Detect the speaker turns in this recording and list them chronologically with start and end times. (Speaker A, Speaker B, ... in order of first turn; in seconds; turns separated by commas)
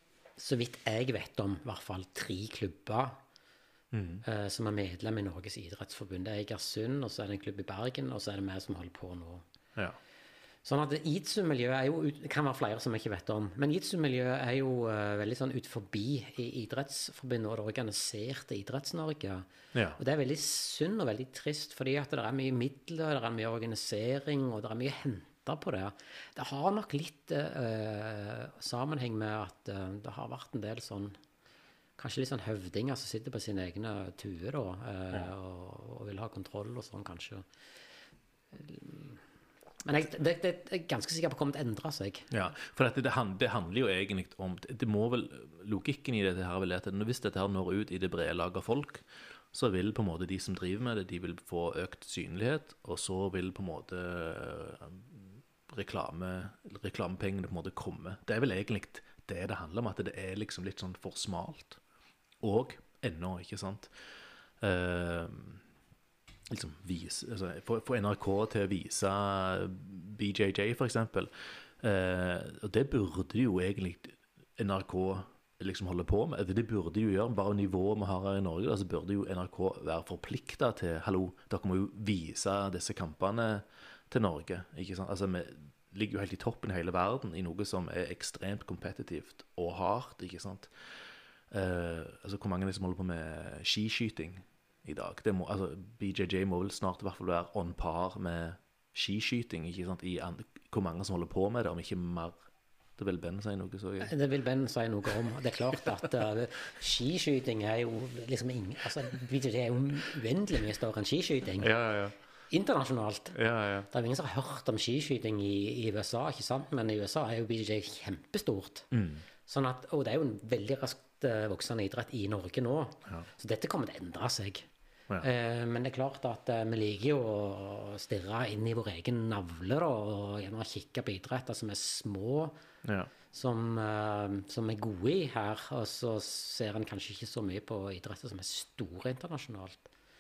Speaker A: 0.4-3.2, Speaker B: 3.9-4.2, Speaker A: 4.2-9.4, Speaker A: 10.6-31.2, Speaker B: 19.7-20.0, Speaker A: 32.0-37.5, Speaker A: 38.5-39.2, Speaker A: 39.8-42.3, Speaker B: 42.3-61.8, Speaker B: 62.4-63.9, Speaker B: 64.6-65.6, Speaker B: 66.5-90.7, Speaker B: 91.5-102.4, Speaker B: 103.0-104.1, Speaker A: 104.0-111.7, Speaker B: 111.6-112.2, Speaker A: 112.5-113.3, Speaker B: 113.3-113.9, Speaker A: 113.9-118.9, Speaker B: 118.9-119.2, Speaker A: 119.5-124.7, Speaker A: 125.2-132.6, Speaker B: 132.8-133.1, Speaker A: 133.3-139.9